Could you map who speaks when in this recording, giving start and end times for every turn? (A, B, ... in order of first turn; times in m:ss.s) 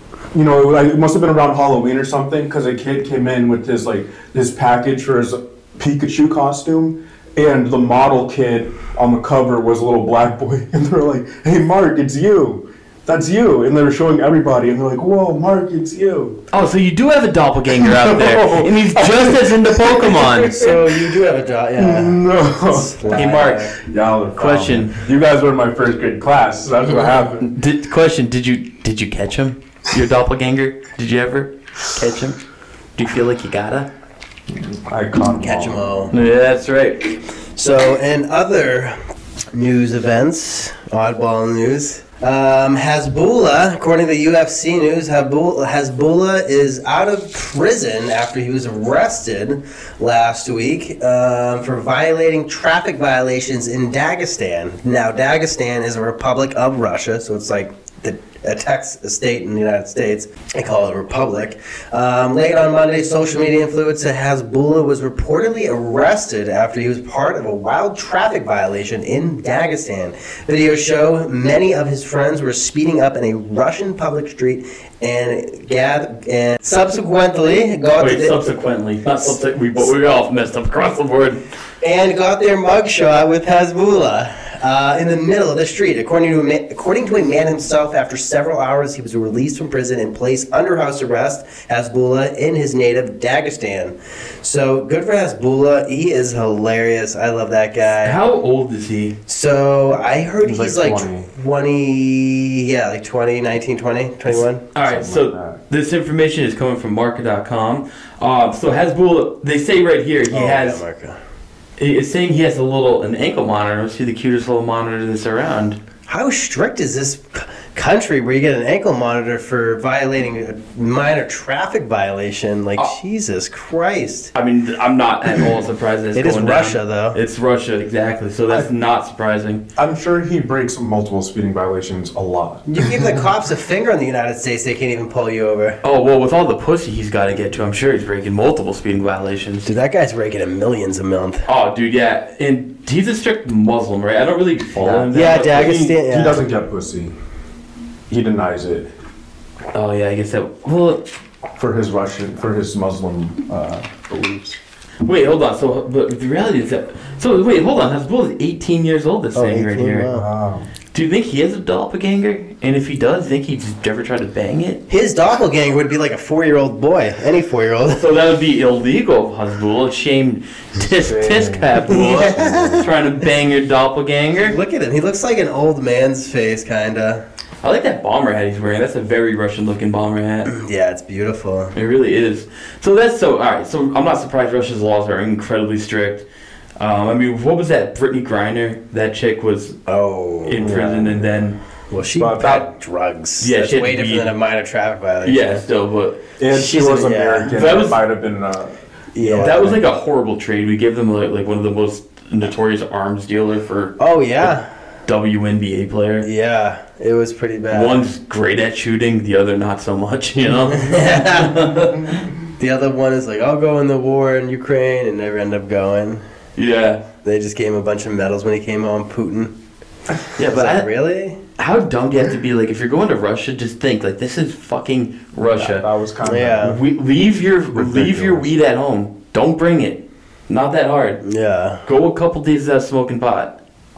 0:00.3-0:16.4 A
0:16.5-0:20.7 B
0:17.7-0:21.0 A
0:20.4-0:23.7 C
0:21.8-0:27.5 A
0:23.1-0:23.7 B
0:24.4-0:25.0 B
0:27.4-0:32.4 B
0:33.0-0:33.9 B
0:34.5-0:35.9 A
0:35.4-0:36.1 C
0:36.1-0:37.2 B
0:37.6-0:39.0 C
0:39.5-1:18.4 C
1:18.0-1:21.4 B
1:21.8-1:38.2 C
1:38.0-1:39.2 B
1:39.3-1:44.6 C
1:40.4-1:41.3 A
1:44.6-1:50.8 B
1:44.8-1:45.6 A
1:50.3-1:51.2 C
1:51.8-1:55.8 B
1:56.1-2:04.3 C
2:04.3-2:09.6 B
2:06.1-2:07.2 C
2:09.8-2:12.9 A
2:12.7-2:15.8 C
2:15.8-2:19.7 B
2:19.6-2:21.5 C
2:21.4-2:25.8 B
2:24.7-2:27.1 A
2:25.1-2:26.4 C
2:28.1-2:28.9 A
2:29.7-2:31.1 B
2:31.6-2:34.6 A
2:35.0-2:40.1 B
2:39.3-2:40.3 C
2:40.1-2:40.7 A
2:40.9-2:44.8 B
2:44.9-2:48.0 C
2:48.0-2:54.6 B
2:51.0-2:52.9 A
2:51.7-2:52.9 C
2:54.4-2:57.2 C
2:57.6-3:00.5 B
3:00.5-3:01.7 C
3:01.7-3:06.2 B
3:06.8-3:09.8 B
3:09.9-3:10.8 C
3:10.4-3:11.6 B
3:10.6-3:11.2 A
3:11.9-3:15.6 C
3:12.1-3:12.7 A
3:13.4-3:14.3 B
3:15.2-3:16.2 B
3:16.4-3:19.8 A
3:16.5-3:17.5 C
3:17.5-3:18.0 B
3:19.1-3:19.8 C
3:19.4-3:24.0 B
3:24.0-3:24.7 C
3:25.0-3:26.3 B
3:26.2-3:28.0 C
3:27.7-3:32.3 B
3:30.7-3:32.0 C
3:32.6-3:36.2 C
3:36.6-3:37.0 B
3:37.2-3:39.5 C
3:40.4-3:40.9 B
3:40.4-3:41.4 C
3:41.6-3:45.8 B
3:45.6-3:46.8 A
3:46.2-3:46.8 C
3:46.6-3:51.2 B
3:47.7-3:48.5 A
3:51.2-3:51.8 C
3:51.8-3:53.6 B